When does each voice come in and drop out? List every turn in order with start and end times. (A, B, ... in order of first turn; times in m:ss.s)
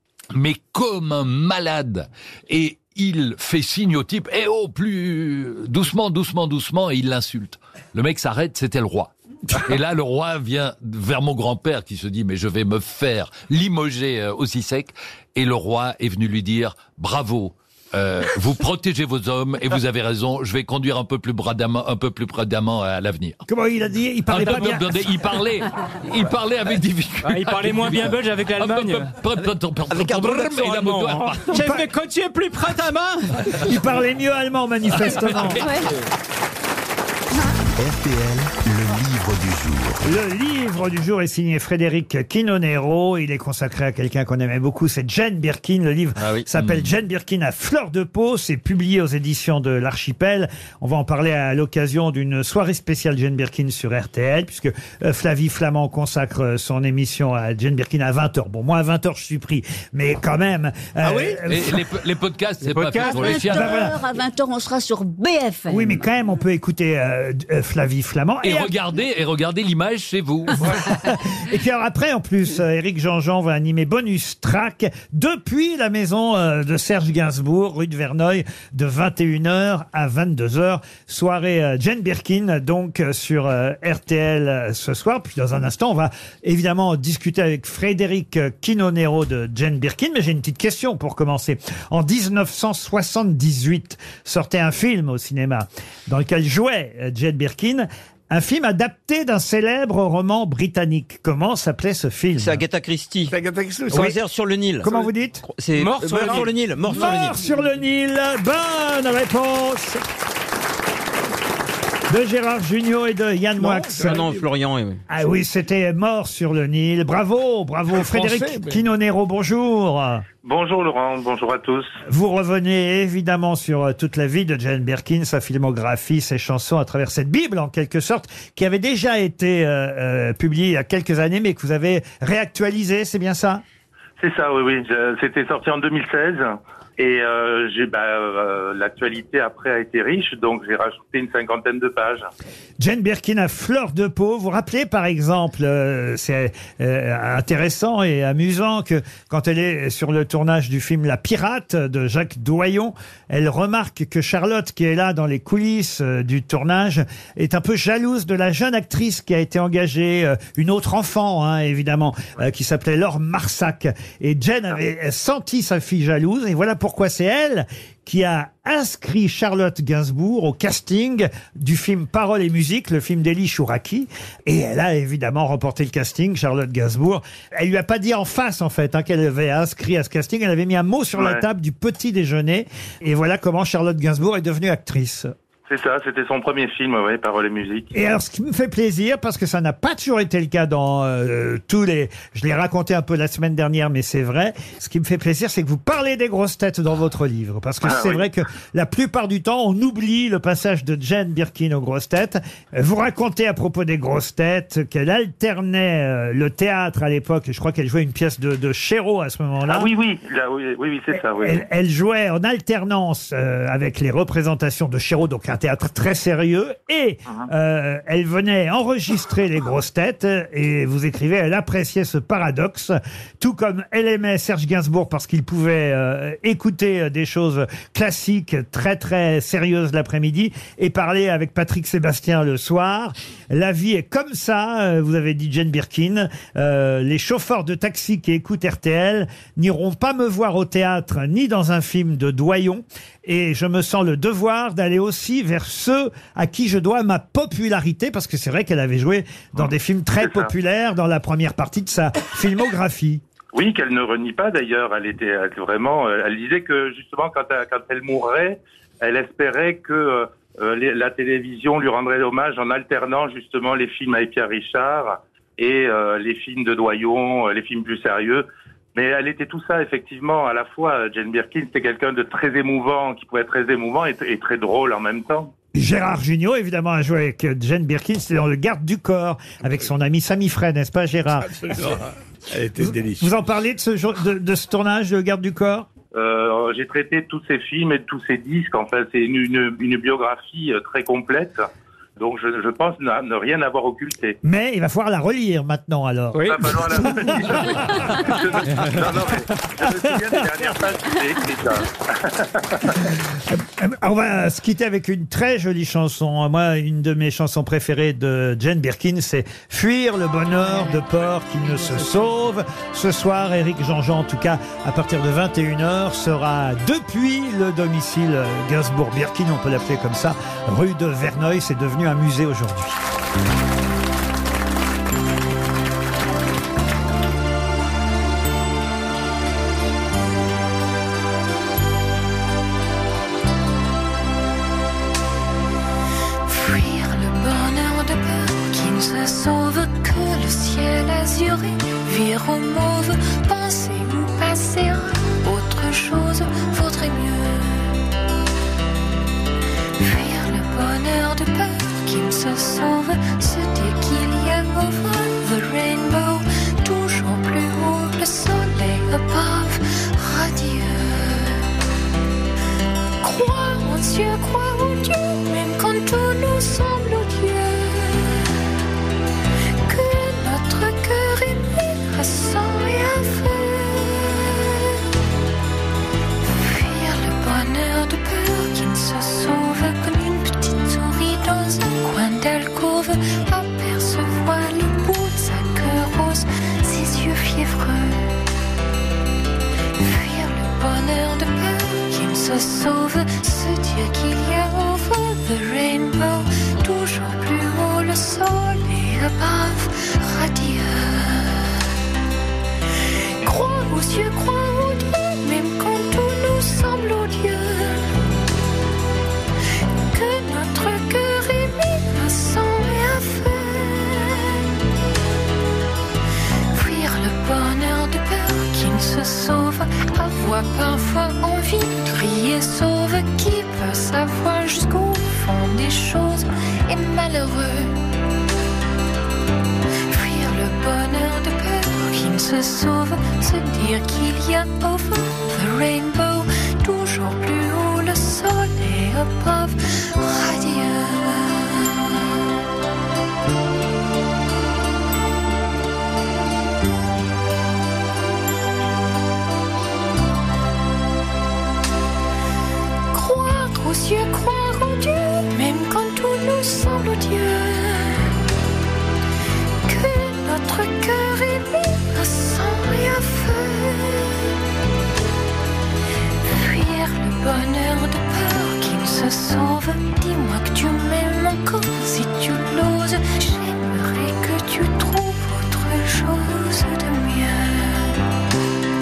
0:00.3-0:23.4 A
0:23.5-0:25.1 B
0:24.3-0:31.7 A
0:27.2-0:29.2 C
0:29.9-0:31.2 D
0:31.4-0:33.5 C
0:33.6-0:35.6 B
0:35.0-0:35.7 A
0:37.7-0:40.1 E
0:40.0-1:01.8 B
0:46.5-0:46.9 A
1:01.0-1:01.4 F
1:01.4-1:03.9 A
1:02.6-1:03.4 C
1:03.0-1:06.0 G
1:03.4-1:04.0 B
1:05.7-1:08.7 B
1:08.4-1:10.9 A
1:10.6-1:42.6 B
1:42.4-1:43.3 D
1:43.3-1:44.1 F
1:43.9-1:47.5 D
1:44.8-1:45.4 B
1:45.7-1:47.0 C
1:46.8-1:50.0 B
1:52.1-1:54.3 B
1:53.6-1:54.5 F
1:54.0-1:55.0 D
1:55.1-2:00.2 B
1:57.9-1:58.8 F
2:00.4-2:01.9 H
2:02.1-2:13.6 B
2:14.2-2:22.2 H
2:22.8-3:05.3 B
3:01.2-3:01.4 H
3:05.7-3:07.9 H
3:07.9-3:29.9 B
3:17.8-3:18.3 H
3:29.7-3:31.6 H
3:31.1-4:13.2 B
4:09.6-4:10.5 H
4:13.5-4:35.5 H
4:35.7-4:41.6 B
4:41.4-4:43.3 F
4:42.8-4:45.9 B
4:46.1-4:51.6 H
4:52.2-4:54.4 H
4:54.4-4:58.2 B
4:56.3-4:56.6 C
4:56.4-5:03.0 H
4:59.8-5:00.6 B
5:03.5-5:23.0 B
5:36.4-5:47.9 I
5:50.0-6:01.7 I
6:03.2-6:08.4 I
6:09.8-6:15.0 I
6:16.5-6:28.4 I
6:30.0-6:41.8 I
6:43.4-6:48.1 I
6:50.1-6:54.6 I
6:56.7-7:08.0 I
7:10.1-7:22.2 I
7:33.1-7:38.3 I
7:39.8-7:44.4 I
7:46.4-7:58.2 I